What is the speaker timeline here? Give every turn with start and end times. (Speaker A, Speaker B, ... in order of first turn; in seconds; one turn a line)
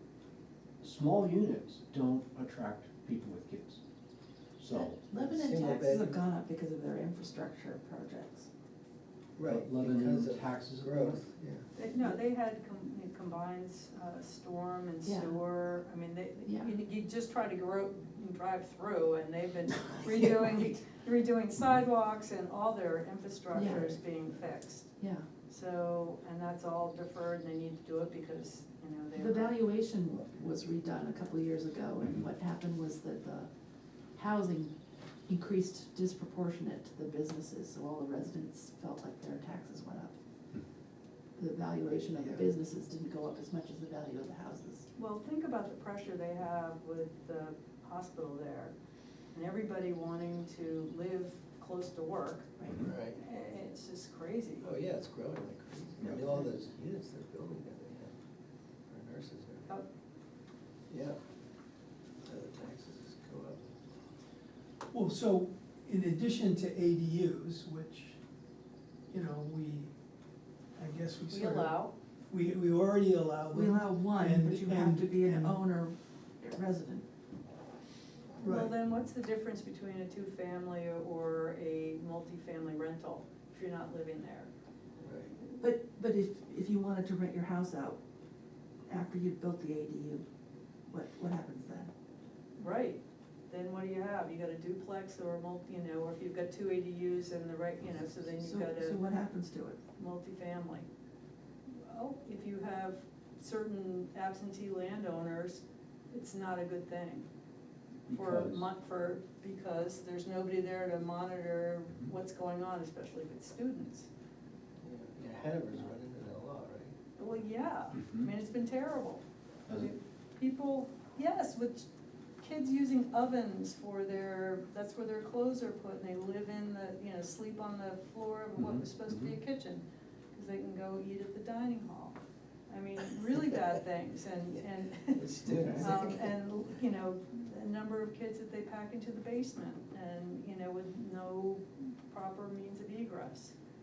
Speaker A: 0.8-3.8
Speaker A: 4.6-5.0
Speaker B: 4.7-8.5
Speaker C: 5.1-6.2
Speaker C: 9.3-11.7
Speaker A: 9.4-11.2
Speaker D: 11.8-24.9
Speaker B: 15.0-15.4
Speaker B: 23.5-23.9
Speaker B: 25.0-25.2
Speaker D: 25.5-29.6
Speaker B: 29.1-33.5
Speaker B: 34.1-34.7
Speaker B: 35.3-40.1
Speaker B: 41.4-44.8
Speaker C: 41.8-42.5
Speaker D: 44.9-48.7
Speaker D: 49.3-54.7
Speaker B: 52.6-52.9
Speaker C: 52.8-53.2
Speaker C: 54.6-58.1
Speaker C: 58.9-59.7
Speaker C: 60.9-61.2
Speaker C: 62.2-63.6
Speaker E: 64.9-68.2
Speaker E: 69.1-69.9
Speaker E: 70.8-75.6
Speaker D: 71.3-71.9
Speaker B: 73.5-77.0
Speaker E: 78.4-78.8
Speaker D: 78.4-84.5
Speaker C: 85.0-85.3
Speaker B: 85.6-88.0
Speaker B: 88.9-90.2
Speaker B: 90.9-91.9
Speaker D: 92.6-99.0
Speaker B: 98.3-99.8
Speaker D: 100.0-100.9
Speaker D: 101.8-107.3
Speaker A: 108.1-108.7
Speaker D: 108.1-114.1
Speaker C: 114.8-116.9
Speaker D: 117.2-121.9
Speaker A: 118.0-118.3
Speaker D: 122.4-143.5
Speaker A: 128.6-129.4
Speaker C: 135.1-136.3
Speaker B: 135.6-135.9